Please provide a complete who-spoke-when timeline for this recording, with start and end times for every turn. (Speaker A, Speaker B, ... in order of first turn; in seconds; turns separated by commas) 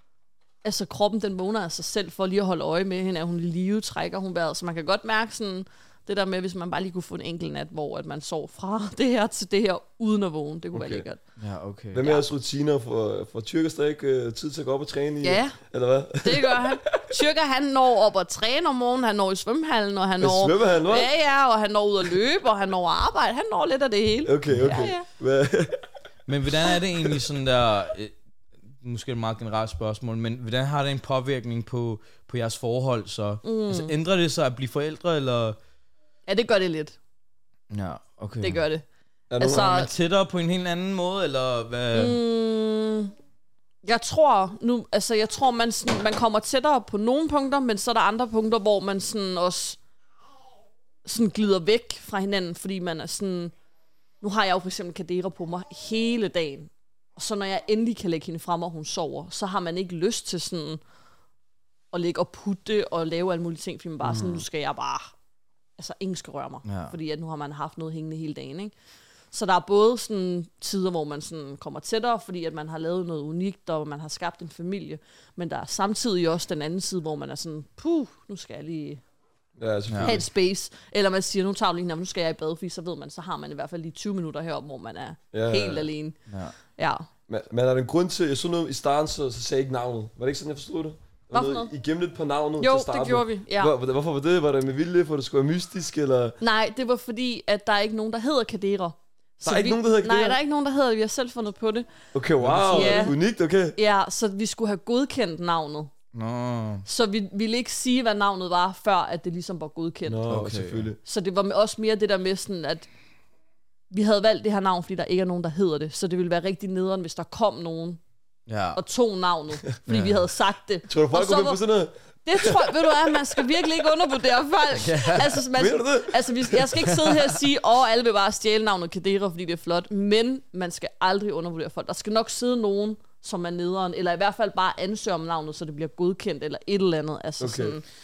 Speaker A: 0.6-11.2, Speaker B: 10.7-11.1, Speaker C: 11.4-12.1, Speaker B: 11.9-17.1, Speaker A: 15.2-15.6, Speaker A: 16.2-25.1, Speaker B: 20.2-21.1, Speaker B: 24.2-25.8, Speaker C: 24.5-24.8, Speaker C: 26.3-28.1, Speaker C: 28.8-35.6, Speaker A: 33.4-33.9, Speaker A: 36.3-37.0, Speaker C: 37.7-38.6, Speaker A: 38.4-38.8, Speaker B: 39.3-39.8, Speaker A: 39.4-39.9, Speaker C: 39.5-42.2, Speaker A: 41.9-43.1, Speaker A: 43.8-49.8, Speaker A: 51.0-53.5, Speaker A: 54.2-60.8, Speaker A: 61.9-65.1, Speaker B: 64.0-64.4, Speaker A: 65.8-68.7, Speaker C: 66.7-66.9, Speaker A: 69.3-79.0, Speaker B: 79.6-80.3, Speaker C: 79.9-80.2, Speaker A: 80.0-86.2, Speaker B: 85.3-85.9, Speaker C: 86.3-86.5, Speaker A: 86.8-87.1, Speaker B: 87.3-96.4, Speaker A: 91.3-91.7, Speaker A: 92.6-93.7, Speaker A: 96.4-101.9, Speaker B: 99.4-100.4, Speaker B: 102.1-103.8, Speaker C: 102.4-103.1, Speaker A: 102.7-103.2, Speaker A: 103.8-105.9, Speaker C: 106.1-106.8, Speaker A: 106.8-110.2, Speaker B: 110.1-111.0, Speaker C: 110.3-110.9, Speaker A: 111.0-112.9, Speaker A: 113.9-118.0, Speaker C: 118.5-118.8, Speaker A: 118.8-121.6, Speaker C: 119.9-120.2, Speaker B: 120.9-122.6, Speaker A: 122.2-137.8, Speaker C: 124.8-125.4, Speaker B: 125.5-126.7, Speaker B: 137.4-137.8